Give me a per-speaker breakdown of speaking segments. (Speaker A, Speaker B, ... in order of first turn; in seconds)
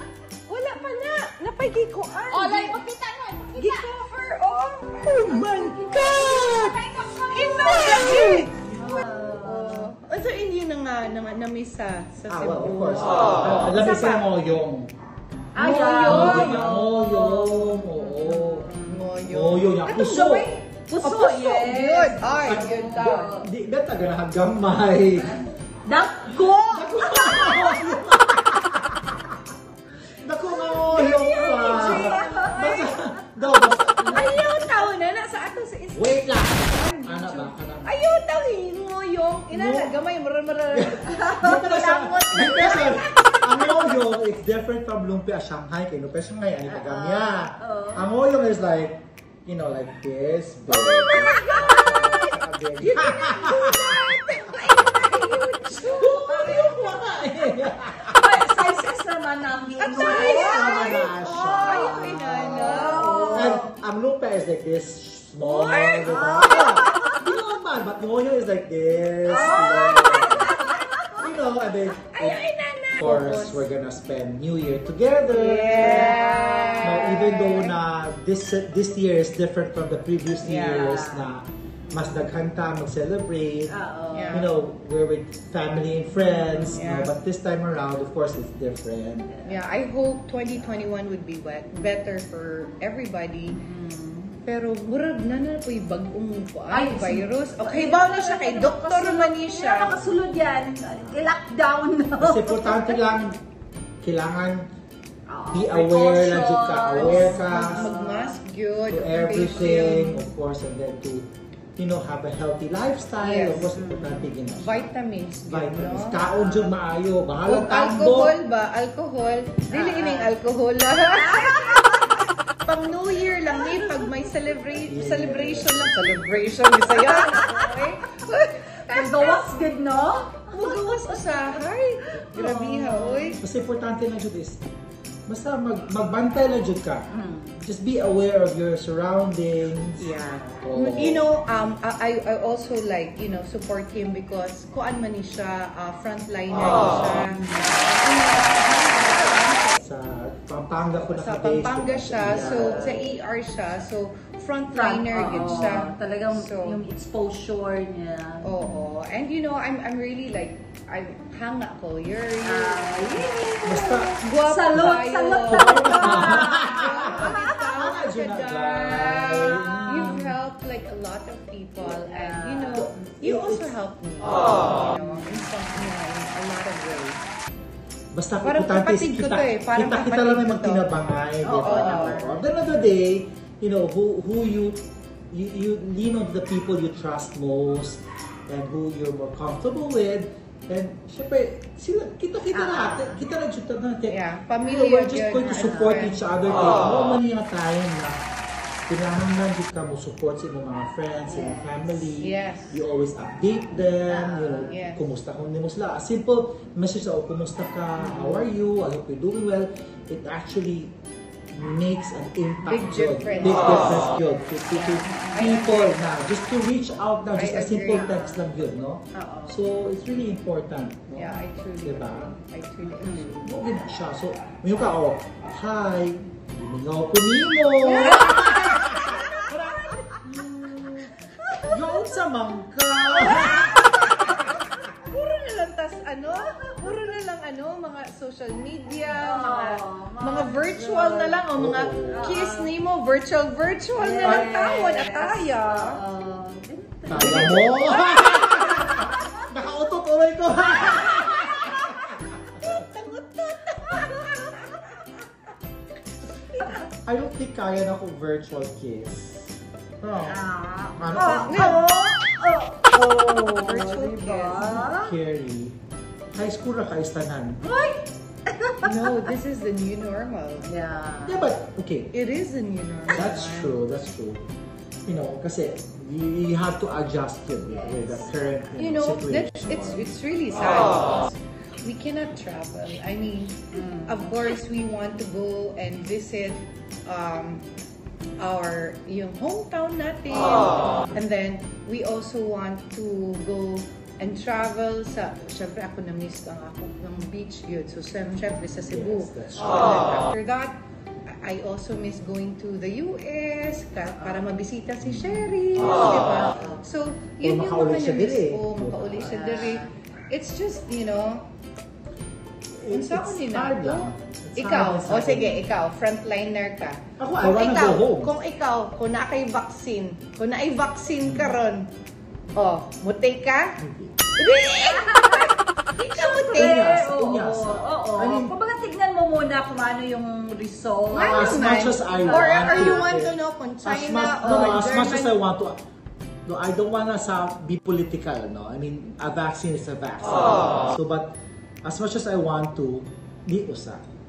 Speaker A: 0.5-2.8, 3.5-6.2, 7.3-8.5, 9.2-14.2, 15.5-16.6, 18.9-23.3, 30.7-32.9, 34.1-43.9, 51.2-51.9, 52.8-57.1, 59.8-63.6, 65.4-66.1, 72.0-73.6, 75.3-77.7, 80.4-81.0, 84.1-84.5, 86.7-87.1, 89.4-93.6, 94.4-99.9, 106.9-110.3, 113.2-113.7, 114.5-116.2, 117.4-129.5, 130.5-133.4, 140.0-149.8, 151.0-156.8, 158.4-162.9, 164.2-177.2, 178.4-181.0, 181.6-182.2, 194.1-196.2, 202.2-202.8, 204.7-205.0, 212.6-214.0, 215.3-216.0, 217.3-218.1, 221.1-223.5, 230.2-230.7, 234.9-246.0, 247.1-248.0, 252.6-255.1, 261.2-261.9, 263.6-264.8, 268.8-270.7, 272.1-273.8, 278.8-287.6, 288.4-300.7, 301.3-311.5, 312.9-321.9, 322.6-323.8, 324.4-326.9, 331.1-335.4
Speaker B: 2.3-3.9, 5.2-9.9, 15.5-19.1, 20.7-23.5, 25.2-28.0, 30.7-33.0, 46.6-48.1, 50.7-52.3, 57.9-63.7, 65.9-67.2, 69.3-71.3, 75.8-77.7, 80.7-81.3, 81.9-82.2, 83.7-84.5, 86.2-86.8, 89.3-89.6, 93.5-94.3, 96.7-103.0, 105.3-108.4, 109.7-110.0, 113.5-114.3, 116.5-116.7, 119.7-120.3, 121.1-122.3, 123.5-124.1, 126.9-127.8, 128.9-131.6, 132.2-133.4, 137.1-137.6, 147.3-147.9, 152.2-153.0, 154.7-158.7, 162.4-167.5, 169.4-170.2, 171.8-173.1, 174.9-175.3, 181.4-182.4, 192.5-193.2, 195.3-196.1, 201.2-202.0, 204.1-204.7, 208.0-208.5, 213.3-213.8, 214.7-215.5, 217.9-218.4, 219.1-219.6, 222.8-223.6, 227.8-230.2, 231.3-232.0, 233.0-234.7, 236.3-236.9, 239.1-241.4, 242.1-242.7, 244.0-249.3, 253.8-254.2, 256.5-256.8, 260.2-265.1, 267.6-269.2, 270.6-271.5, 277.6-278.6, 283.7-284.3, 304.2-304.5, 306.3-306.8, 309.2-309.9, 324.8-333.1, 334.4-334.8
Speaker C: 5.0-6.8, 12.3-14.9, 16.0-18.7, 19.3-20.6, 22.4-25.4, 26.7-29.2, 30.2-34.4, 35.9-37.9, 39.5-39.9, 40.7-54.0, 55.9-58.2, 59.9-70.6, 71.2-76.2, 76.8-83.7, 84.3-89.3, 102.2-103.4, 104.0-104.7, 105.5-107.9, 108.9-114.9, 115.5-118.3, 124.8-126.2, 133.4-134.6, 135.3-137.1, 137.6-140.1, 140.6-141.2, 149.8-153.1, 163.6-164.2, 164.7-170.3, 172.7-173.7, 178.1-198.2, 198.8-210.9, 211.5-222.3, 223.4-234.4, 241.5-242.4, 247.1-252.7, 256.9-260.4, 260.9-261.8, 264.8-265.8, 266.3-267.6, 271.2-272.1, 273.1-274.5, 275.1-280.1, 298.9-300.1, 305.0-306.2, 307.4-309.4, 312.8-315.6, 317.2-318.3, 321.2-321.6, 323.8-324.2, 326.5-328.5, 331.2-335.8, 336.4-344.0